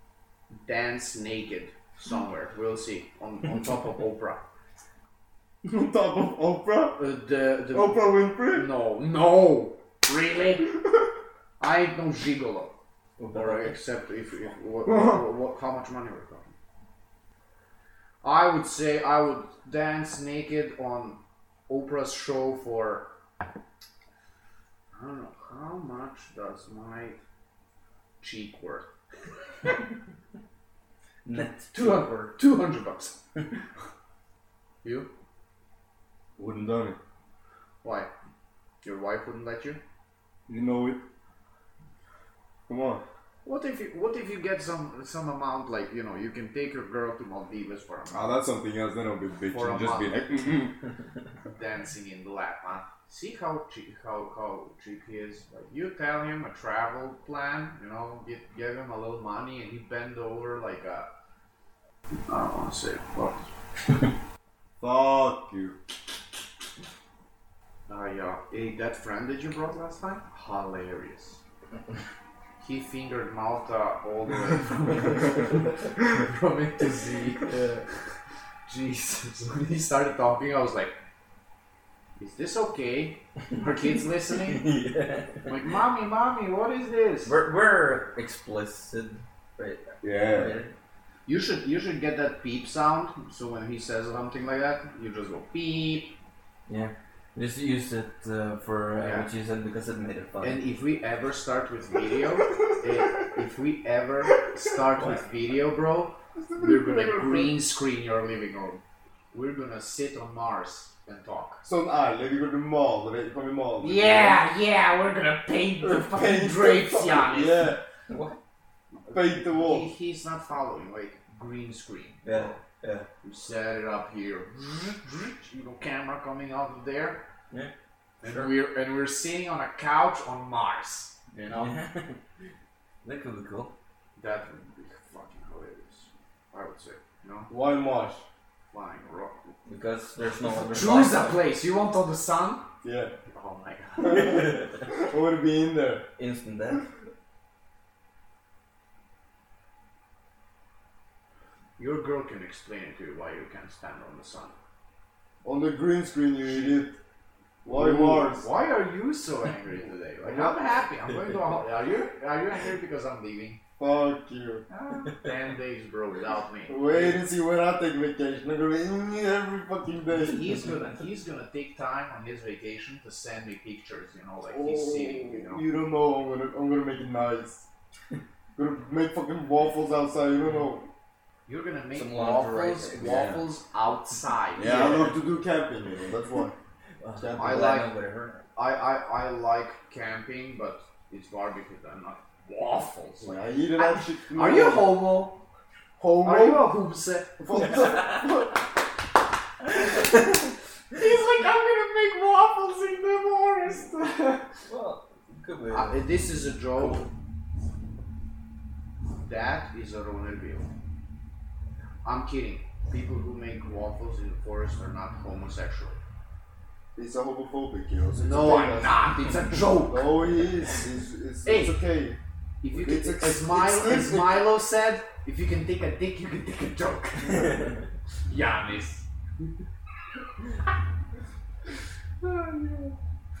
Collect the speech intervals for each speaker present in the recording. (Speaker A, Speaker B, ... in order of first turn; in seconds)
Speaker A: 0.5-4.4, 7.0-10.7, 11.6-12.8, 13.3-16.5, 18.2-23.1, 24.9-27.2, 28.2-28.9, 31.7-33.2, 34.8-35.1, 37.8-38.1, 38.8-39.8, 43.4-48.4, 49.5-50.1, 51.5-61.1, 62.3-63.5, 67.9-71.4, 72.6-77.8, 78.7-80.9, 82.2-84.7, 85.5-87.3, 91.2-96.2, 99.0-99.3, 100.4-108.8, 109.3-111.6, 113.8-117.7, 119.5-122.6, 123.2-127.3, 128.2-131.8, 134.2-137.5, 138.7-139.5, 140.6-142.7, 143.3-144.4, 151.8-154.5, 156.4-156.8, 157.7-163.6, 164.7-167.2, 170.2-175.6, 181.5-185.1, 187.4-187.9, 188.6-195.4, 196.0-198.2, 200.9-204.4, 205.7-207.1, 209.2-210.7, 212.0-216.0, 218.2-220.2, 221.4-221.8, 222.6-229.1
Speaker B: 5.6-7.0, 7.7-8.7, 14.8-15.2, 36.4-37.0, 40.5-41.0, 42.7-43.0, 48.1-50.8, 64.8-65.8, 90.0-90.6, 106.4-107.5, 111.6-114.4, 115.8-117.8, 119.1-119.9, 137.5-138.2, 142.8-143.1, 144.0-146.1, 155.4-157.0, 157.6-158.5, 160.2-160.7, 163.8-164.7, 166.7-170.6, 174.5-177.7, 178.6-180.9, 184.6-186.5, 187.2-187.7, 193.2-195.0, 196.0-196.7, 197.4-198.6, 216.9-222.2, 222.7-224.5, 232.2-232.9
Speaker C: 13.2-13.7, 31.2-32.0, 84.4-85.5, 87.2-90.7, 96.7-100.6, 118.1-118.4, 122.2-123.1, 128.2-128.5, 131.5-132.2, 133.0-133.7, 139.7-141.3, 144.2-144.8, 146.2-146.8, 181.9-183.4, 184.6-185.1, 187.0-188.5, 197.6-198.2, 204.7-206.1, 206.7-207.1